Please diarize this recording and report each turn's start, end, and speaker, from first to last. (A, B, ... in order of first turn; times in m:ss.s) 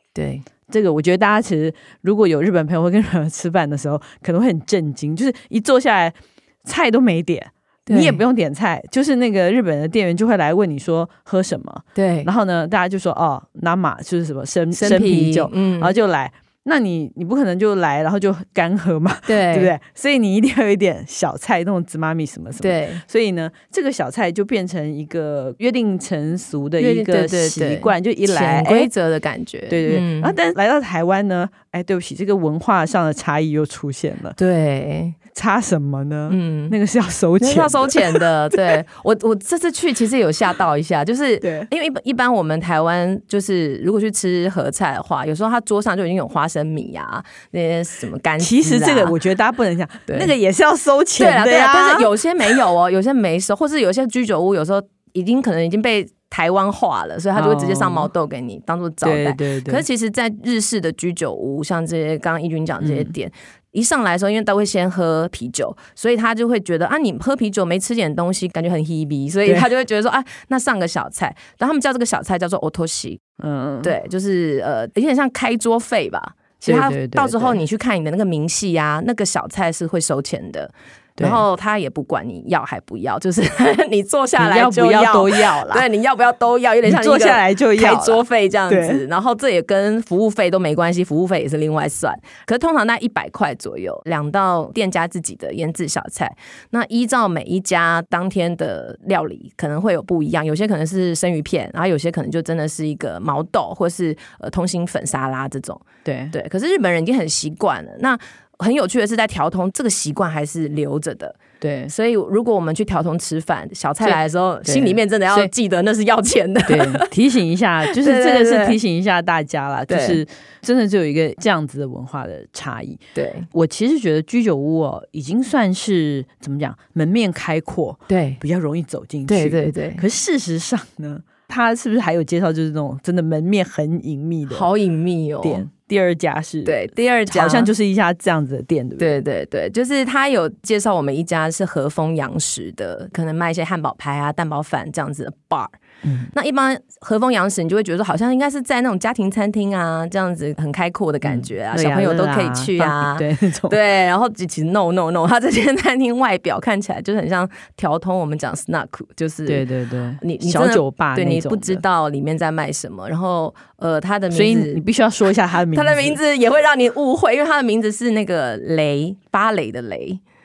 0:00.2-0:00.5 A
0:00.7-0:28.9 B
0:07.9-0:08.2 A
0:12.0-0:12.3 A
0:14.8-0:15.9 A
0:19.3-0:19.7 A
0:22.6-0:23.0 A
0:26.8-0:30.4 A
0:29.7-0:34.4 B
0:34.4-0:35.2 A
0:35.3-0:38.7 B
0:36.3-0:36.8 A
0:37.4-0:49.2 A
0:41.4-0:41.7 B
0:48.4-0:52.6 B
0:50.1-0:50.3 A
0:51.2-1:13.2 A
0:57.3-0:58.1 B
0:59.0-0:59.8 B
1:02.8-1:03.1 B
1:13.4-1:13.9 B
1:13.8-1:51.4 A
1:16.6-1:17.6 B
1:24.4-1:25.9 B
1:26.8-1:29.0 B
1:46.0-1:46.4 B
1:51.6-1:51.9 B
1:51.9-1:57.1 A
1:54.0-1:55.5 B
1:56.7-2:14.7 B
1:57.9-1:58.8 A
1:59.9-2:00.2 A
2:03.2-2:03.5 A
2:08.1-2:08.4 A
2:09.3-2:10.0 A
2:14.5-2:15.7 A
2:15.4-2:19.1 B
2:16.6-2:17.7 A
2:19.0-2:25.7 A
2:26.0-2:26.3 B
2:26.3-2:39.7 A
2:31.2-2:33.8 B
2:39.5-2:41.8 B
2:40.2-2:44.8 A
2:44.3-2:46.2 B
2:45.7-2:50.2 A